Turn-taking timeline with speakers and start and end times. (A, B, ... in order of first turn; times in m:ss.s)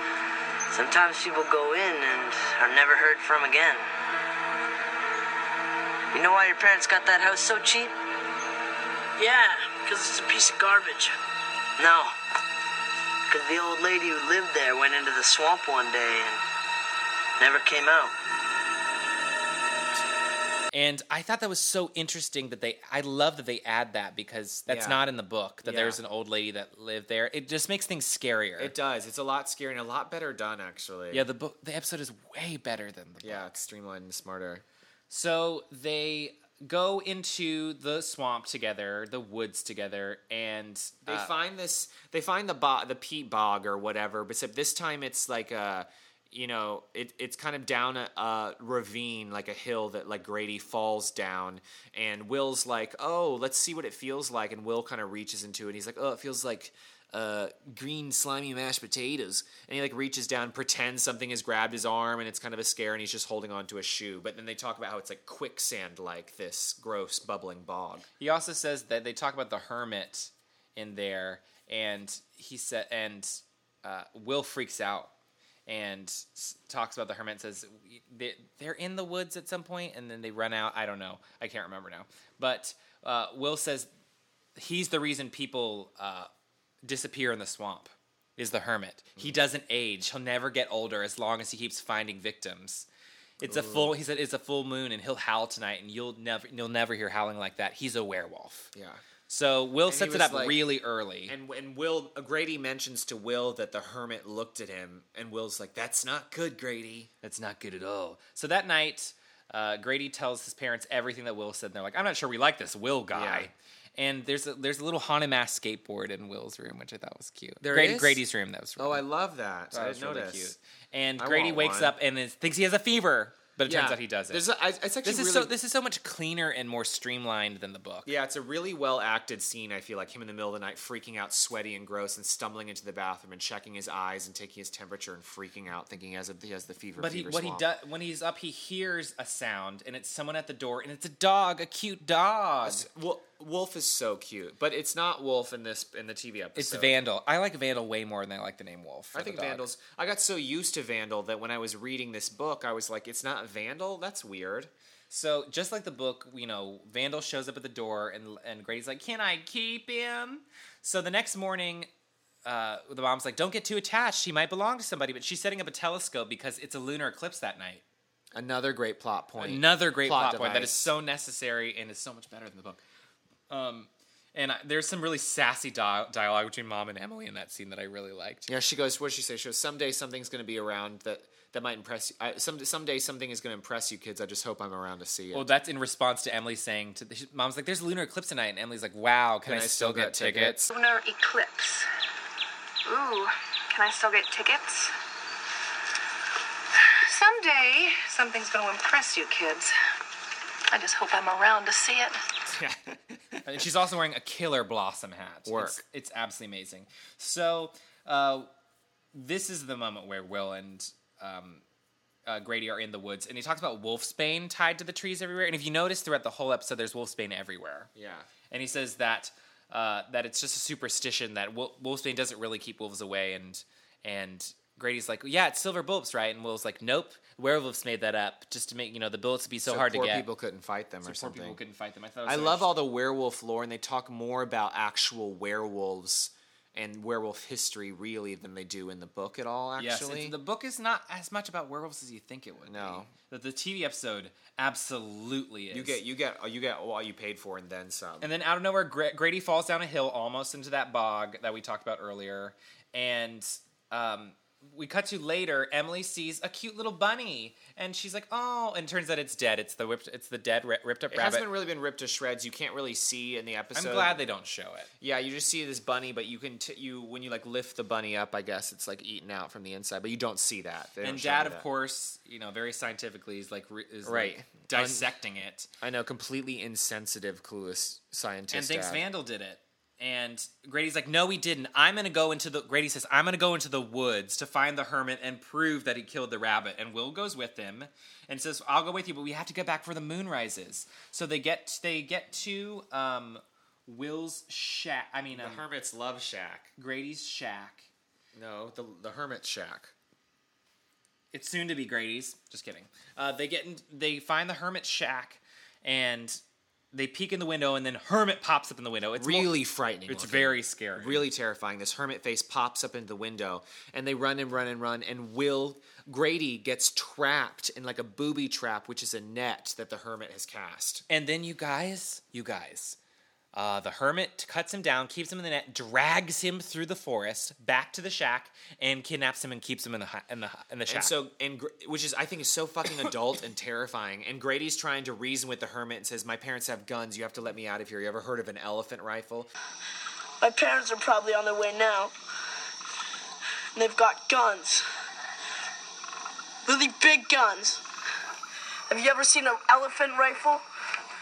0:00.7-0:03.8 A
0:06.1-0:07.9 A
0:09.2-0:11.1 B
0:11.8-0:12.2 A
0:13.3-0:16.4 A
0:17.4-0:18.1 A
0:20.7-0:28.7 C
0:24.7-0:25.0 D
0:25.6-0:26.0 D
0:28.6-0:31.2 D
0:31.1-0:33.4 C
0:33.2-0:34.6 D
0:35.1-0:41.3 C
0:41.0-1:08.1 D
1:08.2-1:15.1 C
1:15.6-1:23.9 C
1:24.6-1:26.3 C
1:26.8-1:32.9 C
1:33.4-1:38.7 C
1:33.4-1:34.0 D
1:38.7-1:39.0 D
1:39.3-1:41.3 C
1:39.8-1:40.7 D
1:41.2-1:47.1 D
1:47.2-1:59.0 C
1:53.1-1:53.5 D
1:57.6-1:58.2 D
1:58.8-2:00.6 D
1:59.7-2:04.4 C
2:01.2-2:01.9 D
2:03.6-2:05.5 D
2:05.0-2:08.1 C
2:08.0-2:17.7 D
2:17.0-2:22.9 C
2:22.6-2:26.9 D
2:26.6-2:29.6 C
2:29.1-2:34.7 D
2:35.1-2:41.9 C
2:42.4-2:47.8 C
2:48.3-2:50.9 D
2:49.4-2:52.8 C
2:53.5-2:58.5 C
2:58.5-3:05.5 D
3:05.3-3:10.7 C
3:09.4-3:10.7 D
3:10.7-3:11.9 E
3:12.8-3:14.9 E
3:17.0-3:19.7 E
3:20.7-3:22.2 E
3:22.5-3:23.5 D
3:23.4-3:28.5 C
3:25.4-3:25.8 D
3:29.1-3:31.6 C
3:32.2-3:37.9 C
3:37.9-3:38.3 D
3:38.5-3:50.3 C
3:49.6-3:51.6 D
3:51.0-3:52.8 C
3:52.2-4:00.3 D
3:59.8-4:06.0 C
4:02.6-4:03.1 D
4:05.7-4:08.3 D
4:08.2-4:21.5 C
4:21.1-4:24.2 D
4:23.7-4:24.9 C
4:25.0-4:31.6 D
4:31.0-4:35.7 C
4:34.0-4:35.1 D
4:35.8-4:39.0 D
4:38.5-4:55.6 C
4:55.3-4:56.7 D
4:56.8-4:57.9 C
4:58.3-4:59.9 D
5:01.3-5:06.4 C
5:06.9-5:11.3 C
5:09.2-5:21.0 D
5:21.1-5:23.0 C
5:23.5-5:31.1 C
5:30.9-5:39.5 D
5:40.4-5:42.1 B
5:43.7-5:44.8 B
5:46.6-5:47.8 B
5:48.9-5:50.6 B